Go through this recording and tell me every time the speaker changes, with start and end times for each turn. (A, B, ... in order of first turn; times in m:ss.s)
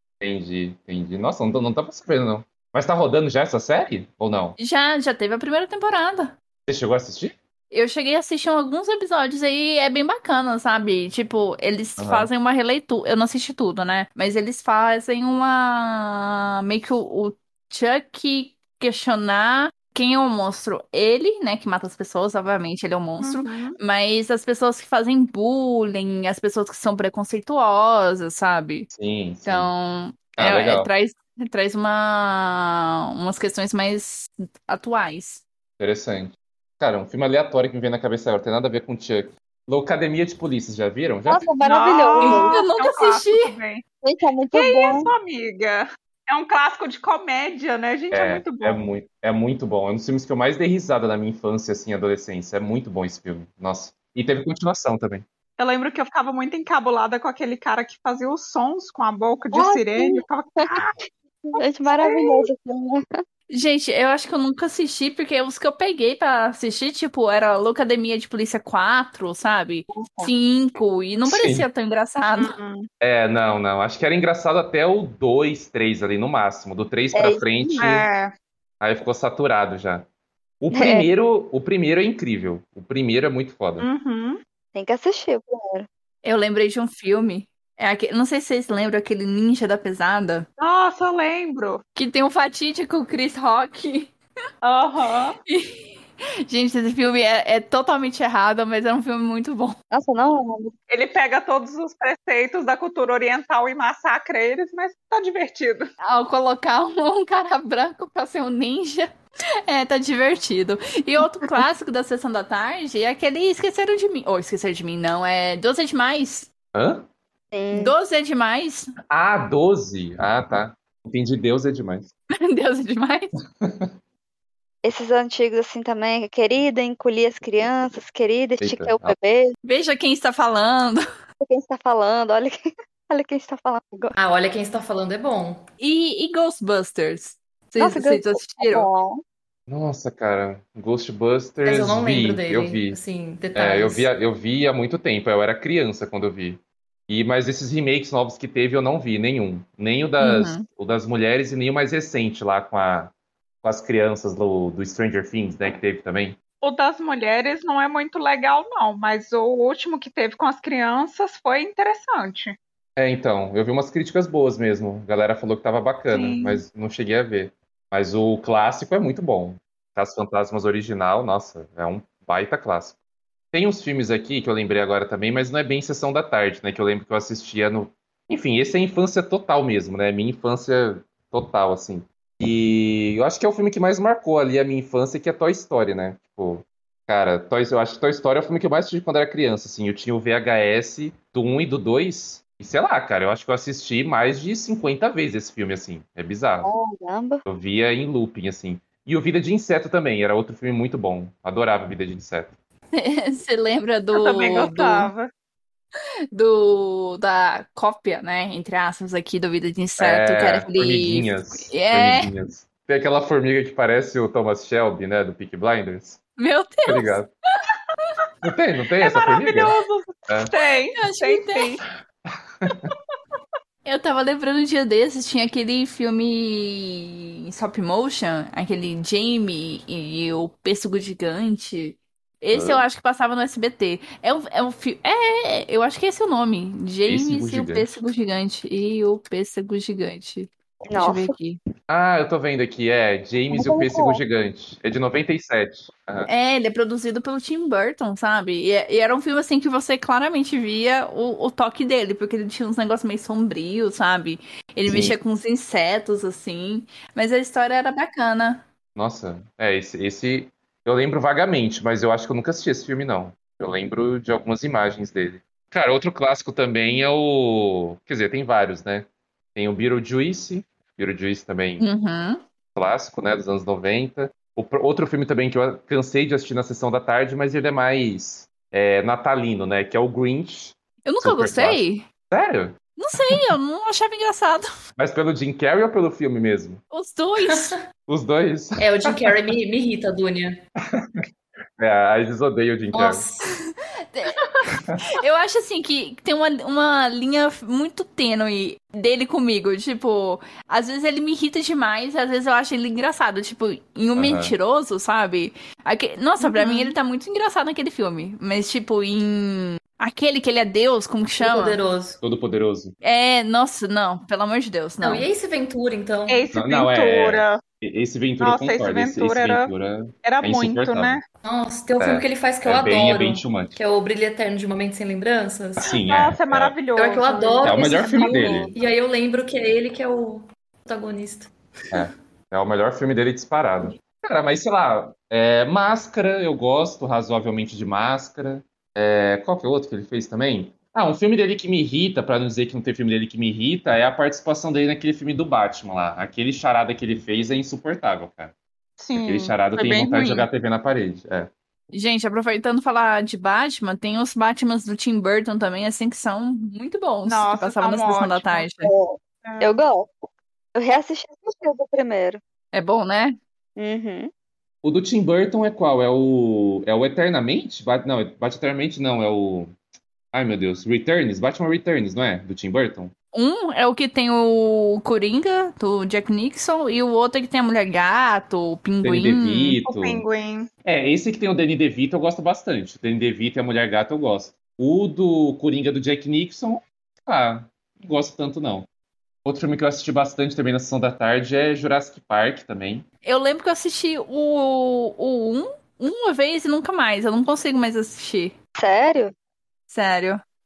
0:00.2-0:04.6 A
0:04.6-0:06.4 B
0:06.7-0:07.3 A
0:07.7-0:28.9 B
0:12.0-0:12.3 A
0:23.2-0:23.8 C
0:28.9-0:29.7 A
0:29.4-0:35.4 B
0:30.4-0:30.9 A
0:35.8-0:41.5 A
0:41.3-0:42.6 D
0:41.6-0:43.8 C
0:42.2-0:43.5 B
0:44.0-0:45.1 D
0:44.5-0:48.8 C
0:48.1-0:55.3 A
0:55.6-1:01.0 C
0:59.5-1:00.2 D
1:01.6-1:02.5 C
1:01.6-1:03.1 D
1:03.5-1:12.6 B
1:11.2-1:11.7 A
1:12.4-1:12.9 C
1:13.0-1:18.1 A
1:17.1-1:17.8 D
1:17.8-1:18.3 C
1:18.8-1:20.1 A
1:20.6-1:23.9 A
1:20.7-1:21.1 D
1:23.8-1:24.4 C
1:24.7-1:25.9 D
1:26.2-1:30.5 B
1:30.6-1:31.8 C
1:32.0-1:34.1 B
1:34.6-1:35.4 C
1:35.5-1:39.8 B
1:39.9-1:40.7 D
1:40.9-1:45.9 C
1:46.0-1:49.1 B
1:49.7-1:56.5 B
1:56.8-1:57.0 A
1:57.5-1:57.9 D
1:57.7-1:58.9 B
1:59.1-2:02.1 A
2:02.3-2:03.3 B
2:03.6-2:03.9 A
2:04.8-2:09.5 D
2:08.6-2:09.2 A
2:09.6-2:11.0 B
2:11.4-2:14.1 D
2:14.2-2:15.6 E
2:15.8-2:18.9 B
2:17.8-2:19.2 D
2:19.7-2:23.0 A
2:21.6-2:24.1 E
2:23.6-2:36.4 A
2:30.2-2:30.6 B
2:36.6-2:42.6 C
2:43.0-2:53.0 A
2:46.1-2:46.6 C
2:53.5-3:16.7 A
3:16.6-3:17.4 D
3:17.5-3:22.6 A
3:22.9-3:25.1 B
3:24.1-3:25.3 C
3:26.3-3:32.3 B
3:30.0-3:36.2 A
3:36.4-3:37.2 B
3:36.9-3:37.3 A
3:38.4-3:39.8 A
3:39.0-3:41.8 C
3:41.0-3:41.8 B
3:42.6-3:42.9 A
3:43.8-4:01.6 B
3:52.5-3:52.8 A
3:57.1-3:57.9 A
4:00.9-4:01.3 D
4:01.9-4:06.3 A
4:03.5-4:04.2 D
4:06.3-4:18.6 B
4:14.9-4:15.1 A
4:19.0-4:31.9 A
4:31.8-4:32.4 B
4:32.8-4:42.8 A
4:41.1-4:42.1 B
4:43.0-4:44.7 B
4:45.0-4:46.8 A
4:46.9-4:47.8 B
4:47.4-4:47.7 E
4:48.1-4:49.2 A
4:48.8-4:50.6 E
4:50.9-4:51.2 A
4:51.8-4:53.2 A
4:52.9-4:53.4 E
4:53.4-5:11.8 B
5:04.2-5:04.5 A
5:11.4-5:12.2 E
5:12.2-5:12.9 A
5:13.0-5:15.3 B
5:15.0-5:16.4 E
5:16.3-5:17.6 C
5:16.5-5:21.2 A
5:18.4-5:19.7 C
5:20.2-5:21.2 C
5:21.4-5:25.9 E
5:22.0-5:23.8 A
5:25.8-5:26.8 A
5:26.0-5:28.7 C
5:27.0-5:32.0 E
5:27.6-5:28.7 A
5:31.9-5:48.5 A
5:49.0-5:50.5 C
5:49.2-5:51.5 A
5:51.9-5:58.9 B
5:57.2-5:58.7 C
5:58.8-6:00.1 D
5:59.5-5:59.8 C
6:00.8-6:02.4 D
6:02.7-6:03.4 B
6:03.8-6:04.3 D
6:04.8-6:09.7 A
6:10.3-6:13.1 A
6:13.3-6:19.8 B
6:19.0-6:20.2 A
6:19.9-6:20.7 C
6:20.8-6:28.9 A
6:29.4-6:33.1 A
6:33.2-6:38.6 B
6:38.8-6:39.3 D
6:39.9-6:40.4 B